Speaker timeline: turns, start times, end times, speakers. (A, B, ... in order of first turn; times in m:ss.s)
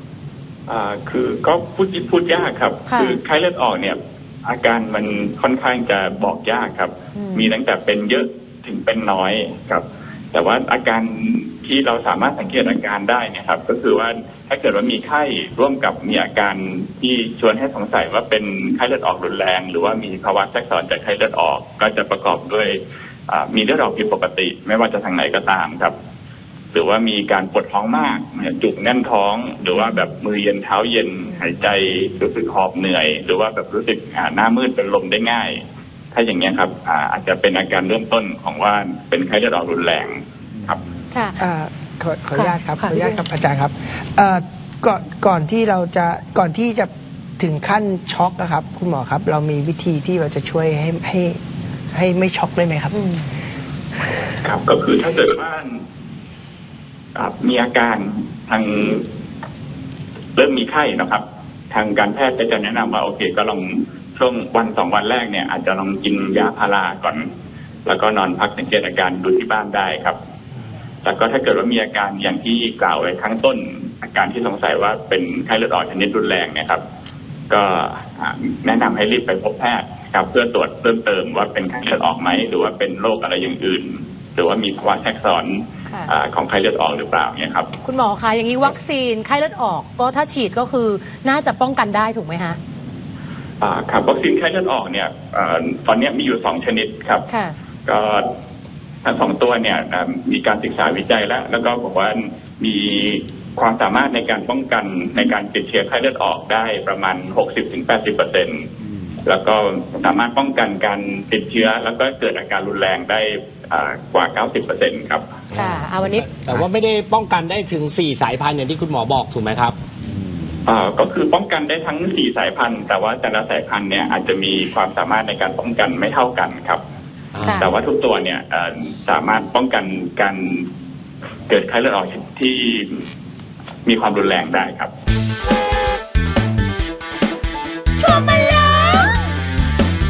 0:00.7-0:26.0 A
0:02.9-0:03.2 B
0:07.2-0:07.5 B
0:26.7-0:40.8 A
0:41.1-0:41.4 B
0:41.4-0:51.4 C
0:42.4-0:43.2 B
0:51.9-0:53.0 C
0:52.9-0:53.2 B
0:54.4-0:55.8 A
0:57.2-0:59.0 A
1:00.4-1:07.3 A
1:07.9-1:10.2 A
1:11.0-1:16.8 A
1:17.5-1:27.7 A
1:27.8-1:32.6 B
1:33.6-1:37.3 A
1:37.3-1:37.6 B
1:37.9-1:38.3 A
1:39.0-1:48.7 A
1:49.2-1:55.3 A
1:55.5-1:59.8 D
1:55.5-1:56.3 B
2:00.7-2:06.8 A
2:07.4-2:07.6 D
2:07.4-2:07.7 B
2:07.6-2:10.7 A
2:11.5-2:13.0 A
2:13.8-2:14.9 A
2:18.0-2:19.3 B